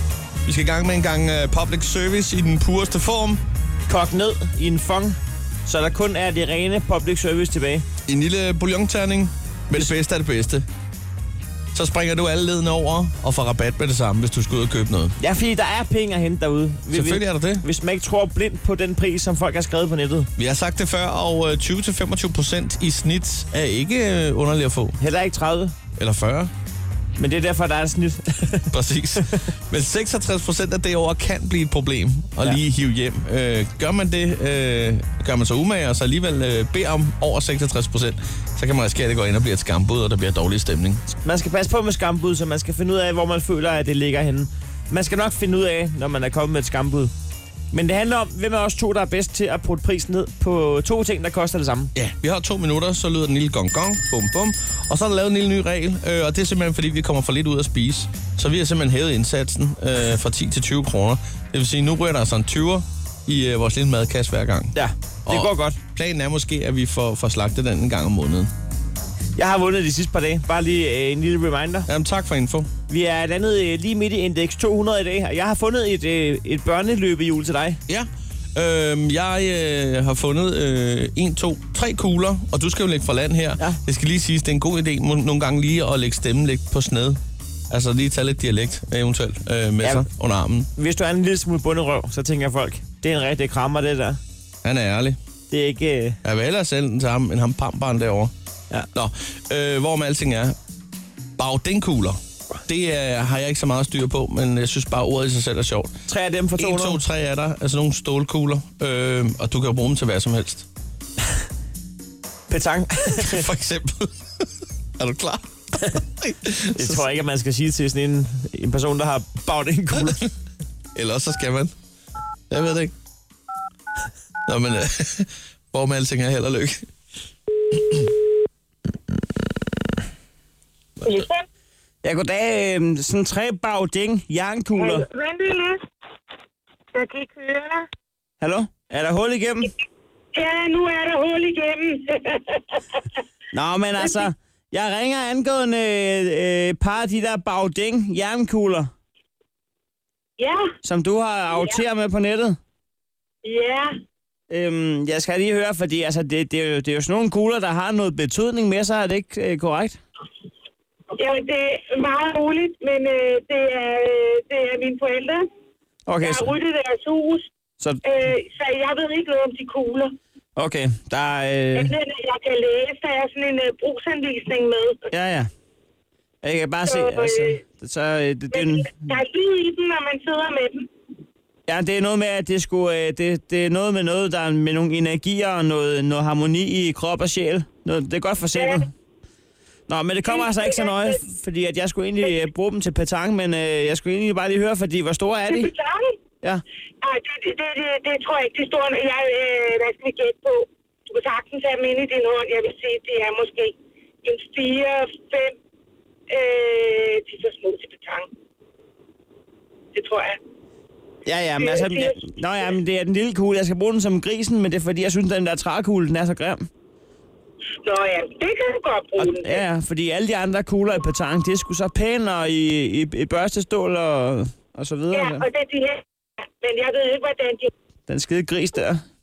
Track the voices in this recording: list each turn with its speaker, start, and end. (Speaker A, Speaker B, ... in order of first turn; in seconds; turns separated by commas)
Speaker A: 0.5-3.4, Speaker B: 3.9-7.8, Speaker A: 8.1-10.7, Speaker A: 11.7-15.2, Speaker B: 15.2-20.3, Speaker A: 16.9-17.6, Speaker A: 20.4-25.0, Speaker B: 25.0-25.8, Speaker A: 26.0-26.5, Speaker B: 27.2-28.7, Speaker A: 28.7-41.0, Speaker B: 41.2-47.1, Speaker B: 47.7-51.9, Speaker A: 52.0-64.8, Speaker B: 64.7-65.8, Speaker A: 65.3-68.5, Speaker B: 69.4-71.9, Speaker A: 71.9-72.7, Speaker B: 72.9-77.8, Speaker A: 77.9-87.2, Speaker A: 87.7-90.7, Speaker B: 89.8-90.1, Speaker B: 90.8-94.2, Speaker A: 94.6-95.2, Speaker B: 95.5-96.2, Speaker A: 96.2-98.3, Speaker A: 98.9-100.5, Speaker A: 101.4-105.9, Speaker B: 106.1-107.0, Speaker A: 106.6-110.7, Speaker B: 112.5-113.5, Speaker A: 113.1-114.2, Speaker A: 115.0-117.1, Speaker B: 116.8-120.3, Speaker A: 121.0-121.7, Speaker A: 122.5-122.9, Speaker A: 124.5-126.8, Speaker C: 131.1-131.4, Speaker B: 132.0-135.1, Speaker C: 134.8-135.8, Speaker C: 136.9-137.9, Speaker B: 138.4-139.7, Speaker C: 140.3-143.0, Speaker B: 143.5-148.9, Speaker C: 144.0-144.2, Speaker C: 150.4-150.6, Speaker B: 150.8-152.6, Speaker C: 153.4-153.9, Speaker B: 154.5-160.0, Speaker C: 161.2-165.5, Speaker B: 166.1-166.5, Speaker C: 166.2-167.5, Speaker C: 168.0-170.1, Speaker B: 170.6-171.9, Speaker C: 171.8-175.1, Speaker B: 175.1-175.5, Speaker B: 176.4-178.9, Speaker C: 176.8-177.6, Speaker C: 178.5-180.9, Speaker B: 181.7-188.9, Speaker C: 188.5-188.9, Speaker B: 189.9-195.7, Speaker C: 190.3-191.2, Speaker C: 195.5-196.2, Speaker C: 197.0-205.6, Speaker C: 206.3-208.3, Speaker C: 209.9-210.4, Speaker B: 211.2-216.7, Speaker C: 211.6-212.3, Speaker C: 217.8-219.6, Speaker B: 219.2-225.5, Speaker C: 225.1-226.0, Speaker C: 226.6-227.7, Speaker B: 228.1-229.0